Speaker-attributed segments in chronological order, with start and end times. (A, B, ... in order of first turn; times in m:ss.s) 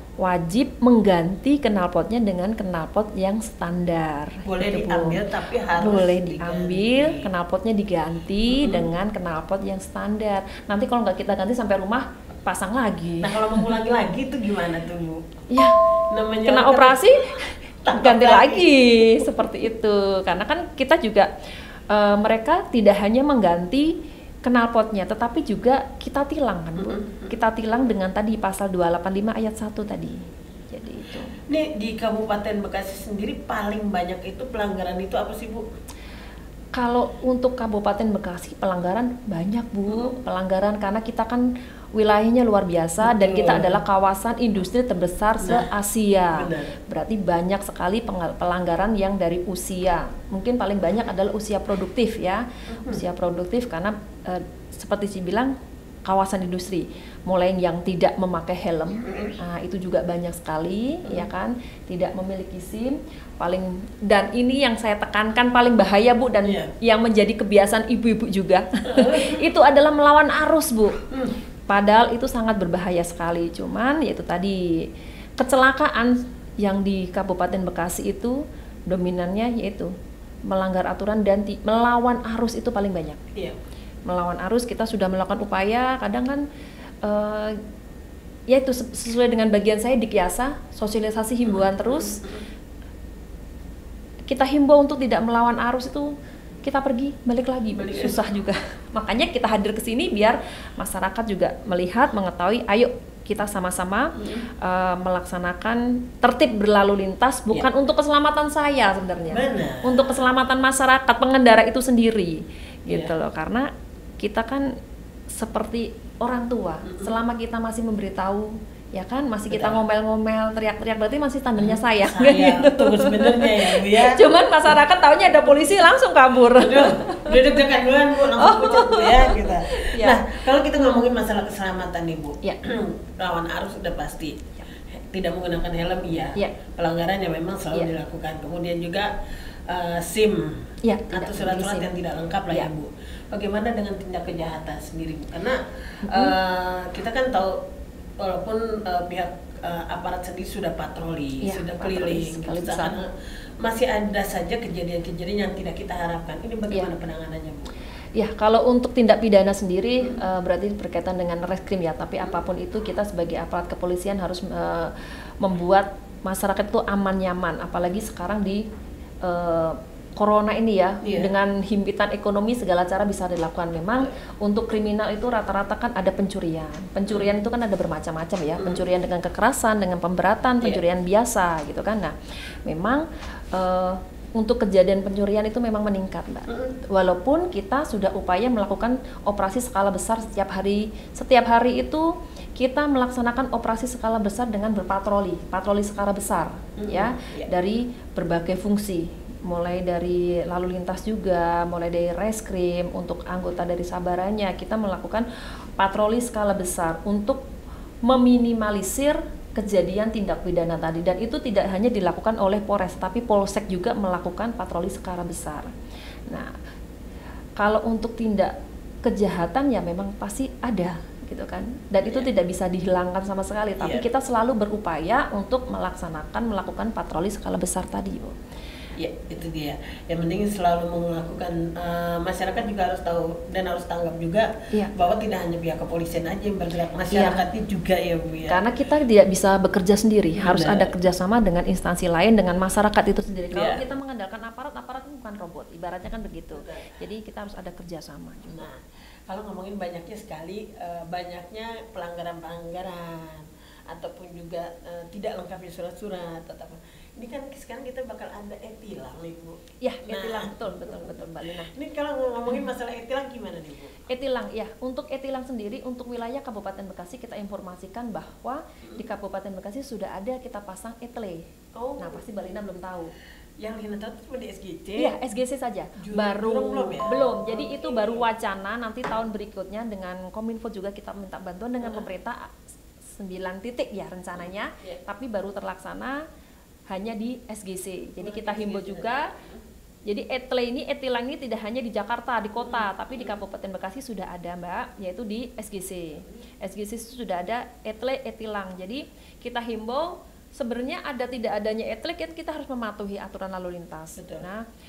0:00.2-0:05.2 A
0:04.4-0:07.3 B
0:05.8-0:13.7 A
0:08.5-0:08.9 B
0:13.2-0:15.4 B
0:15.5-0:15.8 A
0:16.1-0:19.4 B
0:16.4-0:21.3 A
0:21.9-0:23.9 A
0:24.4-0:31.4 A
0:26.8-0:27.3 B
0:31.5-0:35.6 B
0:36.7-0:55.5 A
0:39.9-0:40.1 B
0:43.0-0:43.8 B
0:45.4-0:45.7 B
0:46.3-0:46.7 B
0:52.7-0:53.0 B
0:56.0-1:11.0 A
0:59.0-0:59.4 B
1:06.4-1:06.7 B
1:08.9-1:09.4 B
1:11.1-1:11.4 B
1:11.7-1:14.9 A
1:15.4-1:19.9 A
1:20.5-1:23.2 A
1:24.1-1:26.4 A
1:27.0-1:27.6 A
1:28.5-1:32.2 A
1:31.4-1:32.4 B
1:34.3-1:36.1 A
1:36.6-1:53.7 A
1:37.7-1:38.2 B
1:44.1-1:44.5 B
1:49.3-1:50.1 B
1:54.2-1:54.7 A
1:55.3-2:07.6 A
1:56.8-1:57.1 B
1:59.5-1:59.8 B
2:01.6-2:04.8 B
2:06.6-2:19.1 B
2:08.3-2:10.4 A
2:19.7-2:27.6 B
2:20.8-2:21.9 A
2:26.0-2:26.4 A
2:28.2-2:33.1 B
2:31.4-2:33.0 A
2:33.6-2:37.7 B
2:38.2-2:48.6 A
2:49.2-3:27.5 A
2:51.0-2:51.3 B
2:58.6-2:58.8 B
3:06.5-3:06.8 B
3:16.8-3:17.5 B
3:28.0-3:35.7 A
3:37.6-3:38.5 A
3:39.0-3:48.4 A
3:43.8-3:44.0 B
3:49.0-3:58.6 B
3:57.1-3:57.4 A
3:58.5-4:08.7 A
4:00.4-4:00.9 B
4:03.5-4:03.9 B
4:06.5-4:06.9 B
4:08.5-4:24.0 B
4:19.8-4:21.7 A
4:24.1-4:31.4 A
4:31.7-4:32.2 B
4:32.0-4:33.1 A
4:33.6-4:35.2 B
4:35.0-4:42.5 A
4:36.0-4:38.3 B
4:41.8-4:42.1 B
4:43.1-4:46.2 A
4:44.4-4:45.0 B
4:46.9-4:49.3 A
4:48.2-4:49.6 B
4:50.0-5:04.6 A
4:52.6-4:53.4 B
5:04.2-5:04.5 B